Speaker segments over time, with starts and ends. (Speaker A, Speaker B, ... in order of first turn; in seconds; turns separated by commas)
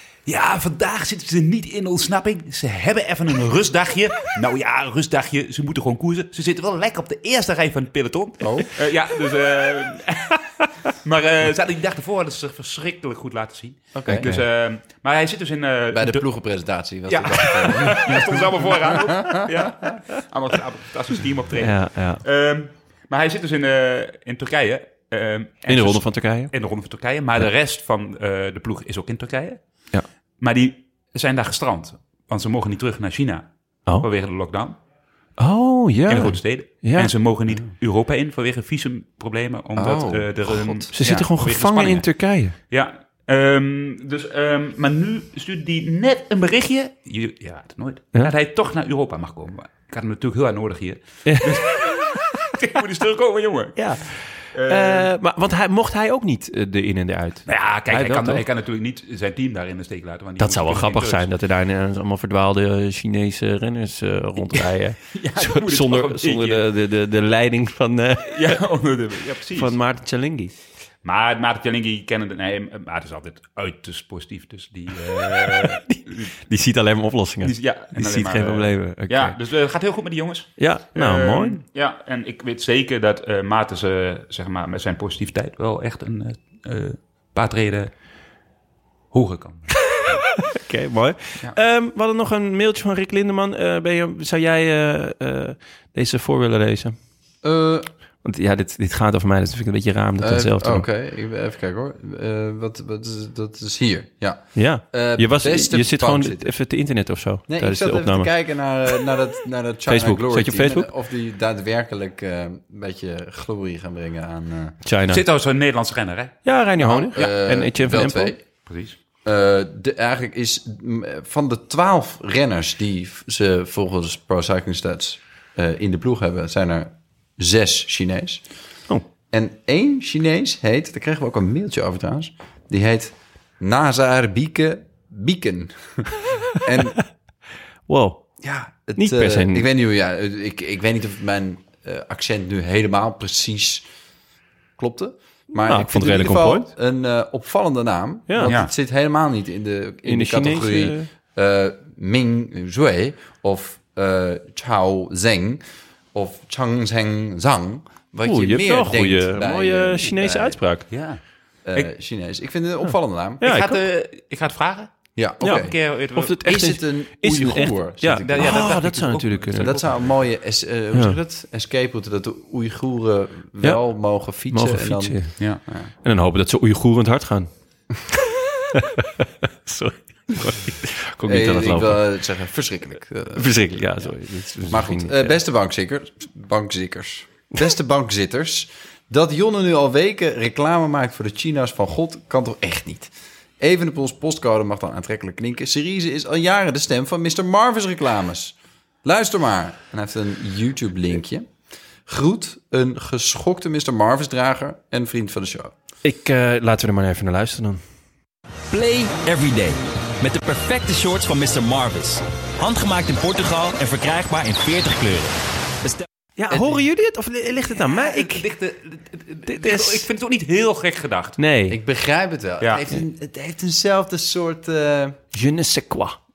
Speaker A: 0.2-16.2, Speaker B: 8.4-8.7, Speaker B: 13.9-14.4, Speaker B: 15.9-19.8, Speaker A: 17.1-29.6, Speaker C: 21.6-22.2, Speaker C: 25.7-26.5, Speaker A: 30.4-34.8, Speaker C: 35.4-37.1, Speaker A: 36.1-42.1, Speaker B: 39.8-40.9, Speaker C: 40.9-42.5, Speaker A: 42.7-53.9, Speaker C: 51.2-51.8, Speaker C: 53.8-58.4, Speaker A: 54.5-55.1, Speaker A: 57.5-61.3, Speaker C: 60.4-68.6, Speaker A: 65.1-66.6, Speaker A: 68.3-69.8, Speaker C: 69.5-70.5, Speaker A: 71.0-76.3, Speaker C: 75.3-79.3, Speaker A: 77.4-87.9, Speaker C: 80.6-81.6, Speaker A: 89.1-90.2, Speaker C: 89.9-97.0, Speaker B: 97.4-97.9, Speaker C: 98.2-100.9, Speaker B: 100.2-106.5, Speaker C: 104.5-108.3, Speaker B: 107.5-114.8, Speaker C: 109.9-110.9, Speaker C: 114.8-115.2, Speaker A: 115.1-116.3, Speaker C: 116.4-118.3, Speaker B: 116.8-118.4, Speaker A: 118.7-119.0, Speaker B: 119.2-128.4, Speaker B: 129.3-137.0, Speaker C: 137.9-138.3, Speaker B: 138.4-143.8, Speaker C: 139.0-139.7, Speaker B: 144.8-155.6, Speaker C: 145.6-146.7, Speaker C: 148.3-148.6, Speaker A: 148.4-148.7, Speaker C: 150.0-151.1, Speaker B: 156.1-160.6, Speaker C: 158.2-160.8, Speaker A: 160.9-161.2, Speaker B: 161.7-163.4, Speaker C: 162.8-163.8, Speaker A: 163.4-166.4, Speaker B: 165.2-165.7, Speaker C: 165.4-169.8, Speaker B: 166.4-168.8, Speaker A: 168.2-170.2, Speaker B: 169.6-175.2, Speaker C: 170.9-171.2, Speaker C: 174.5-175.3, Speaker C: 176.0-177.5, Speaker C: 178.1-182.0, Speaker B: 181.2-184.1, Speaker C: 183.3-185.3, Speaker B: 184.7-201.5, Speaker B: 202.1-205.7, Speaker C: 206.0-207.8, Speaker D: 208.7-216.0, Speaker C: 216.3-218.5, Speaker A: 217.8-221.4, Speaker C: 219.5-220.0, Speaker C: 221.4-221.8, Speaker B: 221.7-225.2, Speaker C: 225.3-226.2